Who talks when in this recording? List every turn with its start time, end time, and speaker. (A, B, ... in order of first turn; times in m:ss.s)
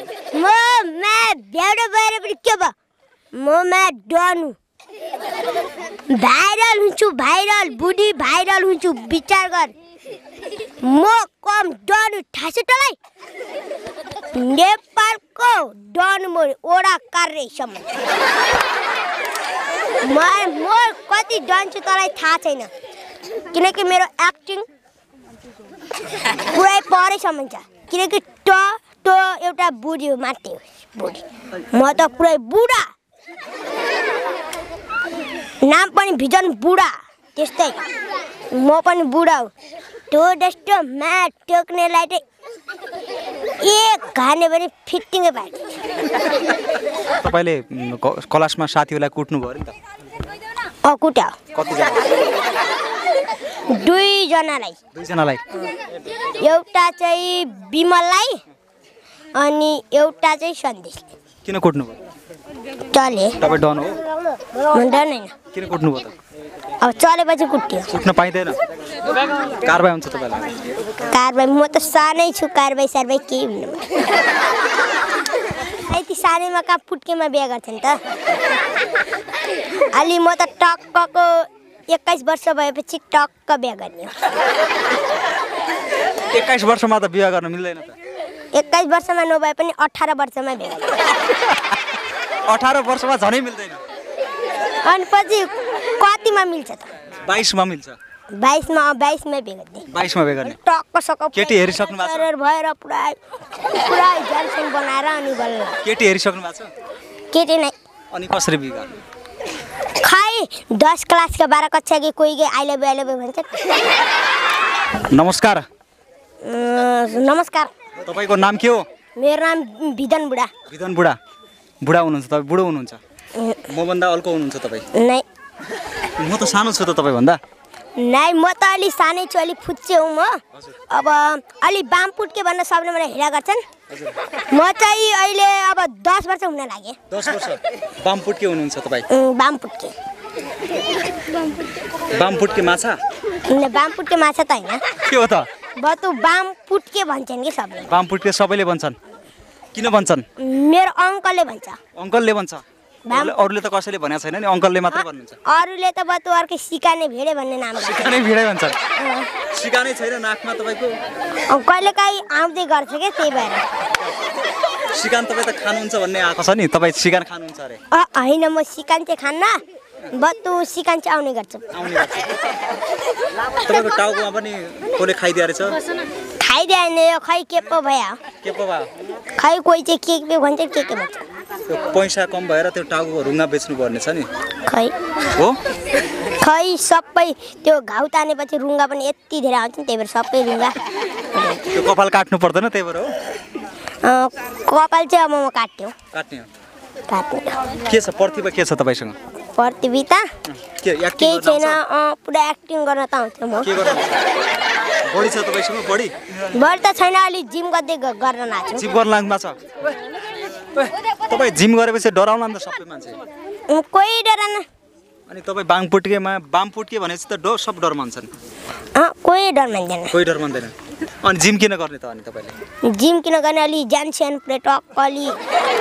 0:00.3-0:02.7 A
0:03.3-0:04.6 A
0:06.1-0:09.7 A
0:10.8-0:13.0 A
0:14.3-0:17.9 A
0:20.0-0:22.7 A
0:23.5-0:24.6 A
0:26.2-0:32.9 A
0:35.6-0:37.8 A
0:38.5-0:39.5 A
0:40.1-0:42.2 A
0:43.6-0:45.8 A
0:47.2-0:49.7 B
0:50.8-0:51.4 A
0:51.5-0:52.1 B
0:53.7-0:54.8 A
0:54.9-0:55.4 B
0:56.4-0:58.4 A
0:59.4-1:01.0 A
1:01.4-1:02.0 B
1:02.9-1:03.4 A
1:03.4-1:04.0 B
1:04.7-1:05.3 A
1:05.5-1:06.1 B
1:06.8-1:07.9 A
1:07.9-1:08.6 B
1:09.6-1:10.6 B
1:11.1-1:13.9 A
1:15.7-1:18.0 A
1:19.9-1:24.2 A
1:26.3-1:28.0 B
1:28.5-1:31.0 A
1:32.5-1:33.8 B
1:34.8-1:36.9 A
1:37.2-1:38.0 B
1:38.4-1:39.9 A
1:39.9-1:40.6 B
1:40.4-1:45.8 A
1:41.3-1:42.3 B
1:45.8-1:46.7 B
1:47.3-1:47.7 A
1:48.1-1:48.9 B
1:50.0-1:53.9 A
1:55.1-1:55.6 B
1:56.4-1:57.7 A
1:58.0-1:58.8 B
1:59.2-2:00.5 A
2:00.7-2:01.2 B
2:01.8-2:03.0 B
2:03.4-2:03.6 A
2:03.7-2:04.9 B
2:04.9-2:05.2 A
2:06.2-2:07.4 B
2:08.0-2:13.6 A
2:13.9-2:14.2 B
2:14.5-2:17.0 A
2:17.1-2:19.0 B
2:19.1-2:19.9 A
2:22.1-2:23.0 B
2:23.5-2:25.0 A
2:25.0-2:25.5 B
2:25.8-2:27.9 A
2:27.9-2:29.0 B
2:29.7-2:30.2 B
2:30.4-2:31.8 A
2:32.0-2:35.4 B
2:33.0-2:33.4 A
2:34.9-2:38.1 A
2:37.8-2:38.8 B
2:39.0-2:39.3 A
2:39.5-2:41.0 B
2:41.5-2:43.6 A
2:44.9-2:47.8 B
2:47.9-2:49.6 A
2:50.1-2:51.7 A
2:51.7-2:52.4 B
2:53.6-2:55.8 B
2:56.4-2:58.2 A
2:58.4-2:58.9 B
2:59.4-3:01.2 A
3:01.7-3:04.3 B
3:04.7-3:04.9 A
3:05.3-3:05.6 B
3:06.4-3:10.7 A
3:11.3-3:11.8 A
3:11.7-3:13.1 B
3:14.0-3:15.9 A
3:16.1-3:16.5 B
3:17.1-3:17.6 A
3:17.8-3:19.2 B
3:19.6-3:20.3 A
3:20.5-3:21.8 B
3:21.2-3:23.7 A
3:23.6-3:24.2 B
3:25.0-3:26.1 B
3:26.5-3:28.8 A
3:28.7-3:29.6 B
3:31.3-3:33.2 B
3:33.7-3:34.6 A
3:35.3-3:38.3 B
3:39.0-3:40.1 A
3:40.1-3:42.6 B
3:42.8-3:45.4 A